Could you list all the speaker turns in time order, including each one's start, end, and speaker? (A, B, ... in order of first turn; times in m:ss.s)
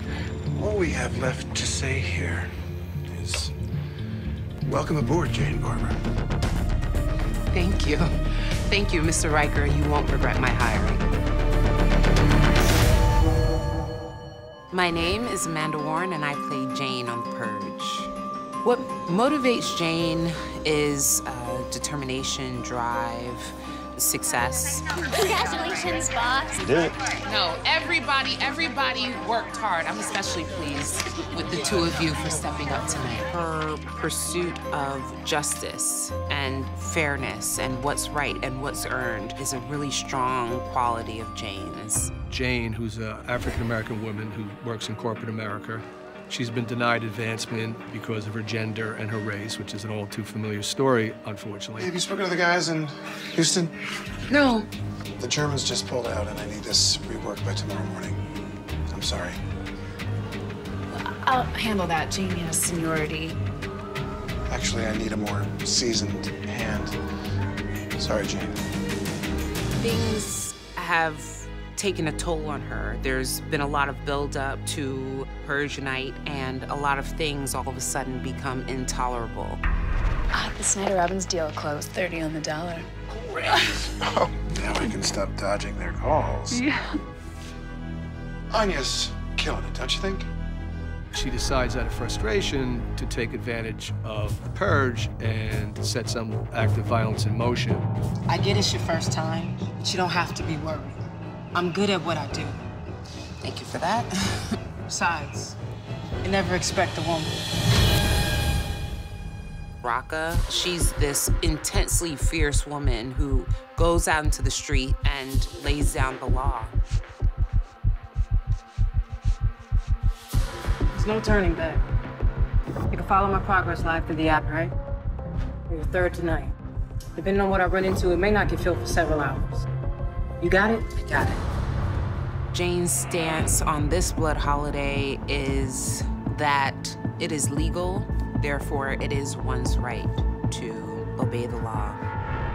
0:00.5-0:02.5 A
0:03.0-0:03.5 A
0:04.6-0:06.0 A
0:07.5-0:11.1 B
0:14.7-0:18.1 B
0:18.6-0:25.2 B
0:25.2-0:26.8 C
0:27.2-0:42.1 B
0:42.3-0:51.9 D
0:51.8-0:53.7 A
0:55.2-0:58.2 A
0:58.9-0:59.4 A
1:00.9-1:03.3 C
1:04.5-1:07.0 A
1:08.0-1:08.6 A
1:09.8-1:19.6 B
1:20.3-1:22.9 C
1:23.2-1:26.6 A
1:28.5-1:30.3 A
1:31.1-1:37.9 D
1:38.3-1:41.0 E
1:41.5-1:42.6 E
1:43.4-1:44.5 B
1:44.8-1:45.6 E
1:46.2-1:47.3 E
1:49.8-1:56.8 B
2:00.9-2:01.8 E
2:02.9-2:04.7 E
2:05.7-2:06.5 E
2:07.2-2:09.6 E
2:10.4-2:11.4 E
2:12.5-2:22.0 B